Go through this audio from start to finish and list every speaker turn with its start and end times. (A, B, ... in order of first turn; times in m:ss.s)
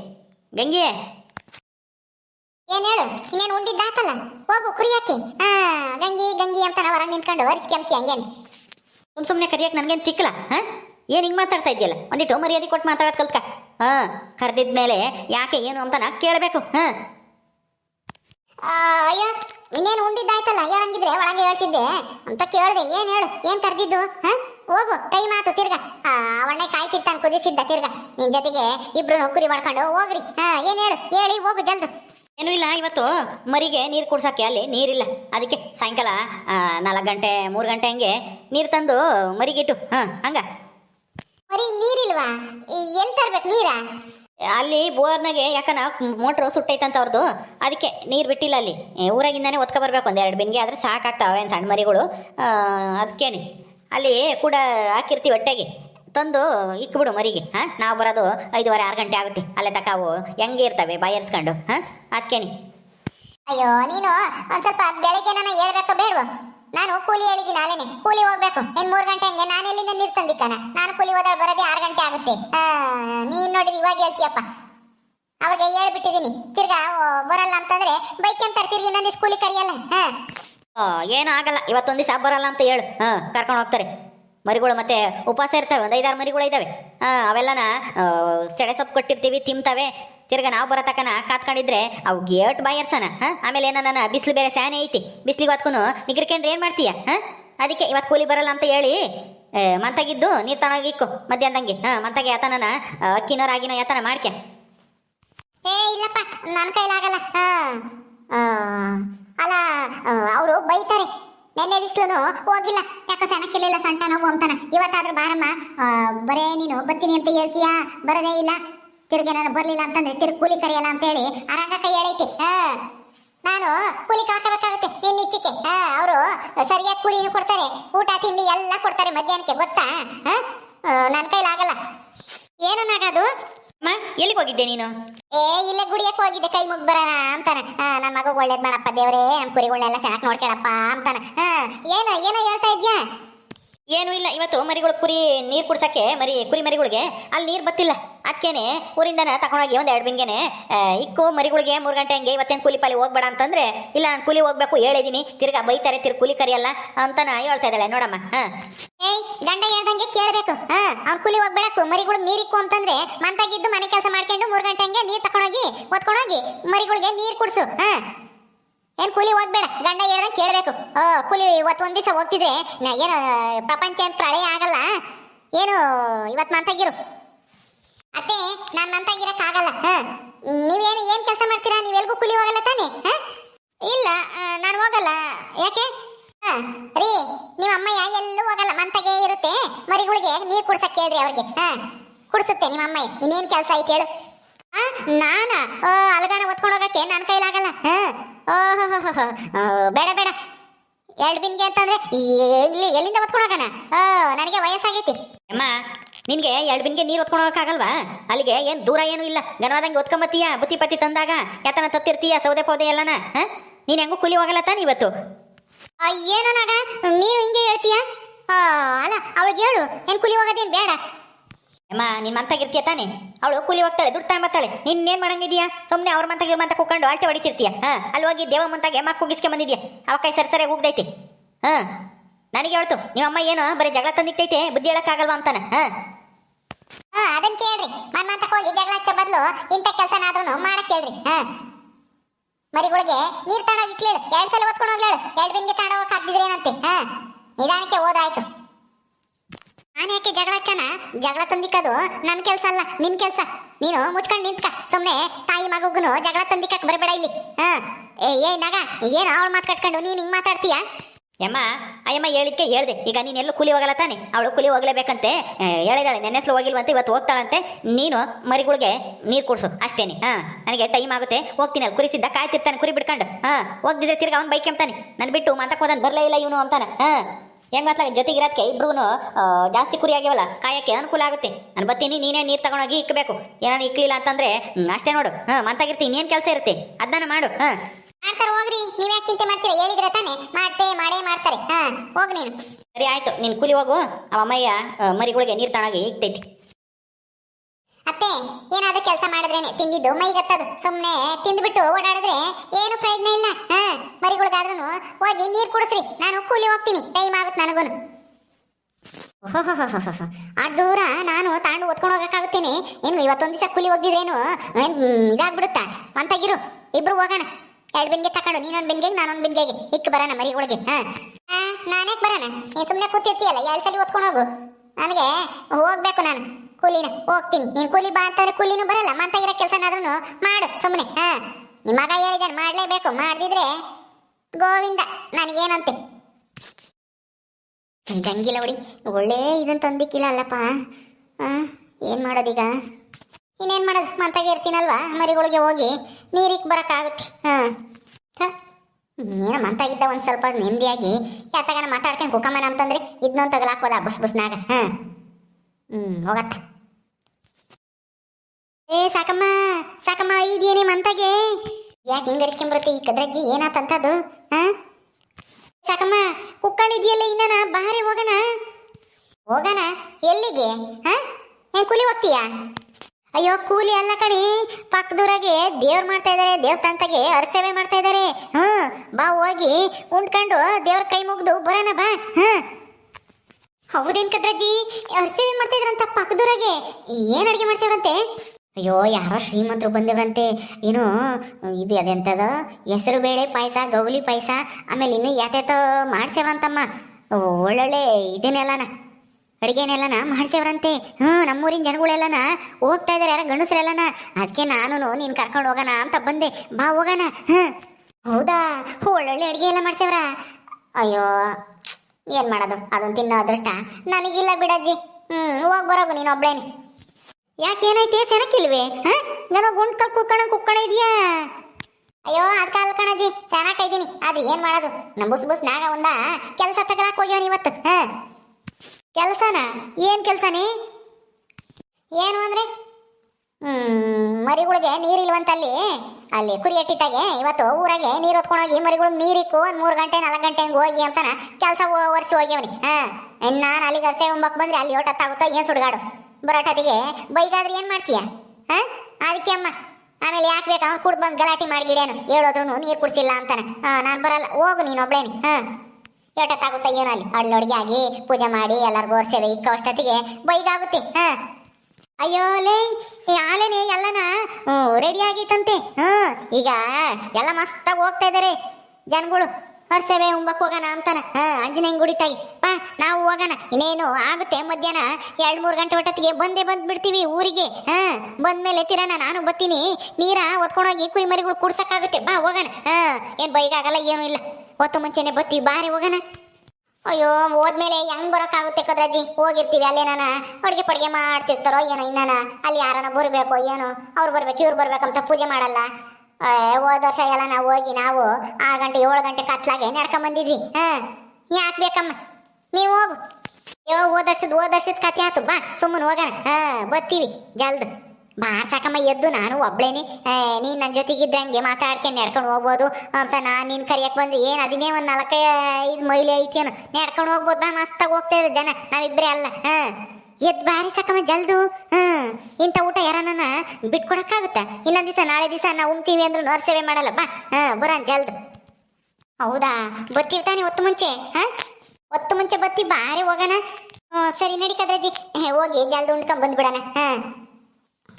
0:00.6-0:00.9 A
0:02.7-0:08.2 B
0:09.2-0:16.9 A
0:18.7-0:31.9 B
0:32.4-0:40.4 A
0:41.5-0:43.8 B
0:44.6-0:53.4 A
0:53.9-1:02.5 A
1:03.5-1:14.4 B
1:15.4-1:20.1 B
1:20.8-1:23.9 A
1:24.4-1:39.0 A
1:39.6-1:44.3 A
1:45.7-1:47.8 B
1:48.3-1:58.6 B
1:59.1-2:02.8 B
2:03.4-2:11.8 B
2:12.6-2:13.3 B
2:13.8-2:14.9 A
2:15.3-2:23.0 B
2:23.9-2:38.5 A
2:39.0-2:48.0 B
2:49.0-2:54.9 B
2:55.6-2:56.9 B
2:58.2-3:03.2 B
3:03.8-3:05.9 B
3:06.4-3:11.8 B
3:12.3-3:14.1 B
3:14.7-3:20.3 B
3:21.2-3:25.2 B
3:26.3-3:35.1 A
3:36.0-3:41.0 B
3:41.9-3:51.1 A
3:52.5-3:55.9 A
3:57.2-4:01.4 B
4:02.7-4:07.0 B
4:07.6-4:08.4 B
4:10.0-4:20.8 B
4:21.4-4:37.2 A
4:37.8-4:47.8 A
4:48.2-4:52.5 B
4:53.0-4:56.4 A
4:58.1-5:07.9 B
5:09.4-5:24.4 B
5:25.0-5:33.7 B
5:34.6-5:36.0 B
5:38.1-5:40.7 B
5:41.4-5:42.7 B
5:43.6-5:47.7 B
5:49.2-5:54.9 B
5:55.9-5:56.6 B
5:58.9-6:01.5 B
6:02.1-6:04.7 B
6:05.9-6:08.4 B
6:09.5-6:11.2 B
6:11.8-6:12.4 B
6:13.4-6:22.6 B
6:23.9-6:28.2 B
6:28.8-6:36.8 B
6:37.4-6:38.9 B
6:39.6-6:47.7 B
6:48.3-6:50.3 B
6:51.0-6:51.5 B
6:52.3-6:56.6 B
6:57.6-7:01.5 B
7:02.3-7:08.1 B
7:09.2-7:10.7 B
7:12.2-7:12.6 B
7:13.6-7:15.8 B
7:16.3-7:35.6 B
7:36.4-7:41.4 B
7:42.2-7:48.6 B
7:49.1-8:06.2 B
8:07.1-8:15.9 B
8:16.4-8:22.1 B
8:22.7-8:23.1 B
8:23.9-8:27.9 B
8:28.4-8:39.9 B
8:40.4-8:48.3 B
8:49.4-8:51.5 B
8:52.1-8:53.6 B
8:54.1-8:57.2 B